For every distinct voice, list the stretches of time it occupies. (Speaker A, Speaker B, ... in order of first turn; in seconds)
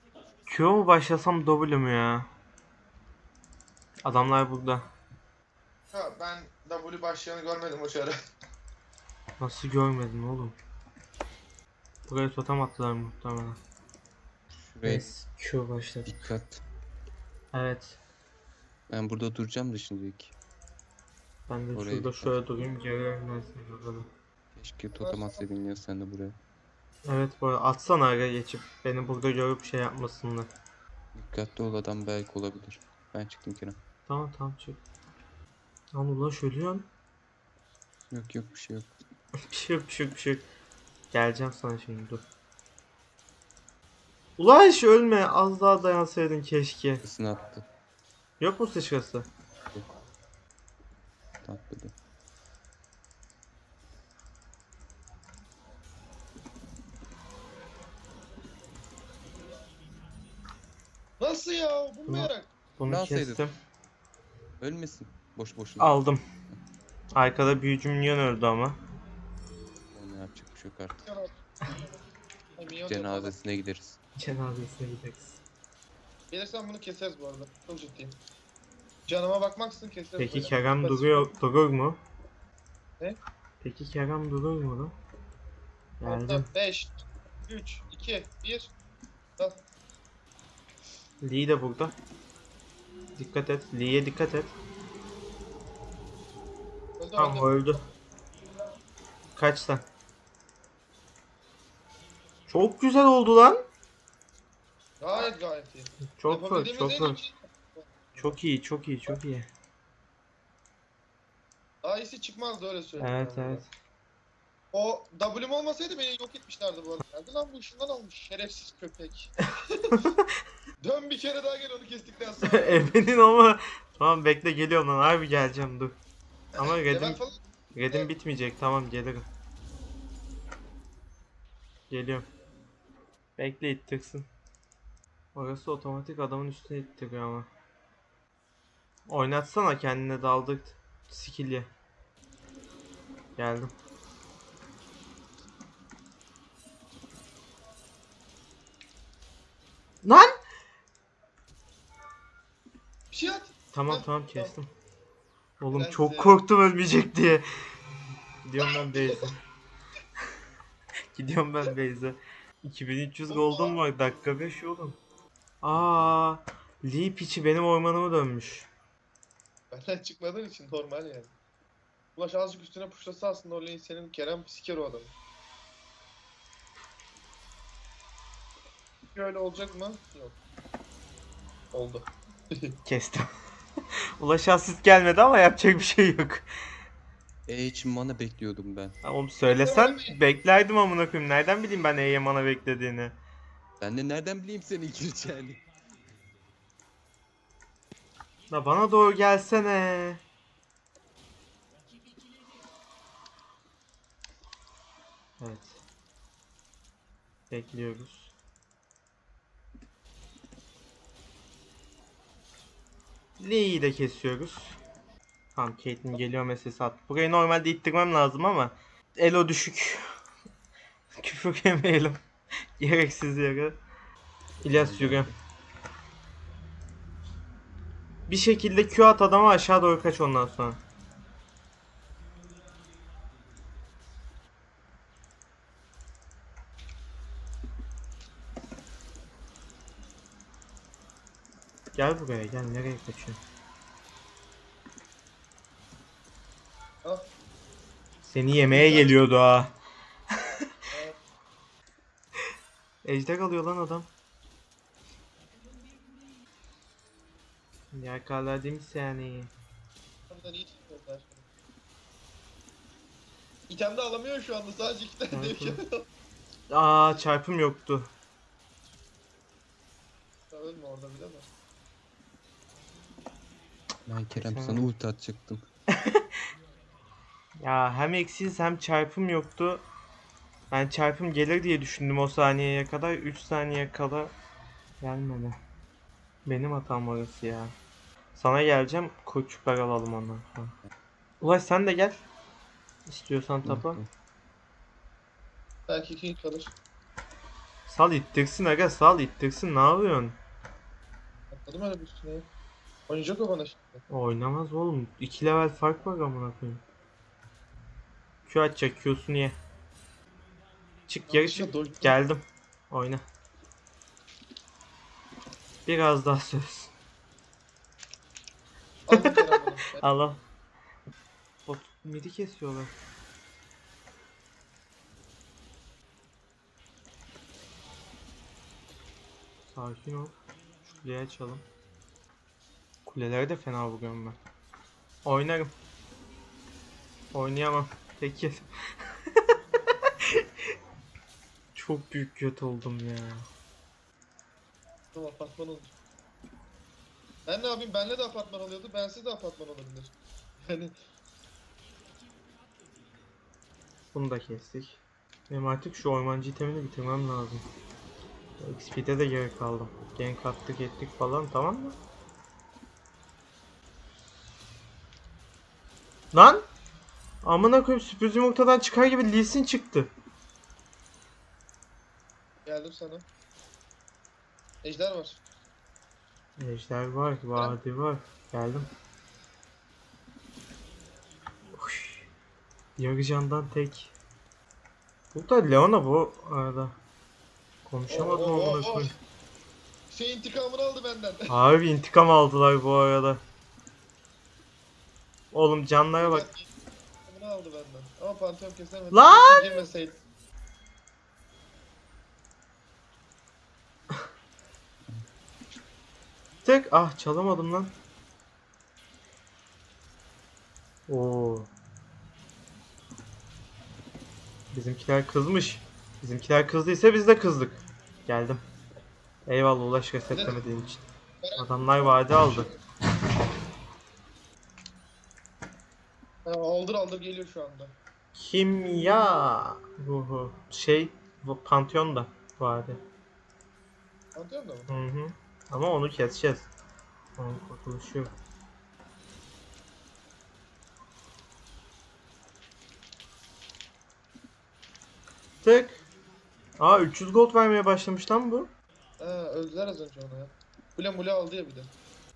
Speaker A: 0.5-2.2, 4.0-4.8, 9.4-10.6, 12.1-13.6, 14.8-16.2, 17.5-18.0, 21.5-24.1, 27.1-30.5, 34.1-34.8, 35.9-36.9, 39.5-40.4, 41.1-42.2, 44.4-47.0, 48.4-49.3, 62.1-63.5, 65.8-66.2, 67.1-68.8, 74.2-75.4, 80.2-82.0, 83.6-84.9, 86.0-86.5, 91.2-91.9, 93.2-94.5, 97.2-97.8, 99.3-99.8, 102.5-103.6, 106.0-107.2, 108.2-109.5, 113.0-113.7, 119.9-120.2, 122.5-126.0, 126.6-127.2, 127.7-129.2, 131.9-132.2, 133.4-134.3, 135.3-137.5, 139.1-141.7, 143.4-143.7, 150.0-150.3, 153.7-154.7, 155.6-157.4, 158.4-159.3, 161.1-165.0, 165.6-168.7, 182.8-183.3, 184.2-186.4, 189.0-193.1, 198.5-200.2, 205.4-205.8, 207.5-208.3, 213.4-214.8, 215.5-220.0, 221.2-222.2, 222.8-223.8, 224.6-225.3, 228.3-230.8, 241.9-243.4, 248.2-249.7, 253.0-254.1, 257.9-259.5, 265.3-265.8, 266.7-268.1, 274.3-274.9, 275.9-276.2, 277.6-279.8, 280.7-284.3, 285.0-285.6, 286.4-287.7, 288.3-290.7, 291.4-292.2, 293.1-294.0, 297.9-300.4, 304.1-306.8, 308.4-309.6, 311.1-313.2, 315.9-316.9, 320.0-320.4, 321.6-322.9, 329.7-331.6, 333.1-334.4, 335.2-335.7, 337.3-338.6, 341.7-343.4, 354.1-357.6, 358.6-362.0, 366.3-366.6, 367.4-370.1, 376.6-378.9, 381.7-382.2, 383.0-384.1, 385.3-386.9, 387.9-389.1, 391.5-393.4, 395.5-396.4, 399.1-399.7, 406.6-407.9, 411.1-411.7, 414.7-418.6, 419.5-421.0, 421.6-422.7, 428.4-433.0, 434.9-436.7, 437.4-438.3, 445.6-446.0, 446.8-448.7
Speaker B: 5.9-8.1, 24.9-25.4, 61.2-62.5, 71.0-71.9, 72.6-73.3, 76.3-78.2, 79.1-81.2, 86.0-88.7, 89.4-89.6, 97.0-97.5, 105.0-108.4, 111.8-113.6, 114.7-120.1, 120.8-122.9, 126.6-127.4, 153.1-154.5, 155.7-156.4, 163.3-163.8, 169.7-171.3, 172.2-175.1, 179.1-180.4, 181.7-182.7, 189.5-190.1, 248.6-249.1, 250.9-251.2, 260.3-261.4, 263.7-266.0, 270.5-271.5, 295.9-296.7, 301.5-302.5, 303.1-304.0, 311.3-312.2, 319.1-320.1, 345.1-345.9, 347.5-350.1, 350.7-350.9, 372.6-373.2, 374.8-375.4, 388.1-389.1, 390.1-391.5, 396.2-396.7, 397.3-400.2, 420.3-420.6, 421.4-422.8, 426.4-427.9, 434.3-434.9, 449.2-451.9
Speaker C: 14.5-15.1, 16.1-16.6, 18.9-20.4, 21.7-22.4, 24.5-26.4, 31.1-33.8, 38.1-38.9, 47.0-47.6, 51.4-51.9, 62.9-63.5, 64.6-66.6, 69.9-71.1, 72.9-74.0, 187.5-188.9, 193.8-195.6, 224.7-225.3, 274.1-275.6, 293.6-294.1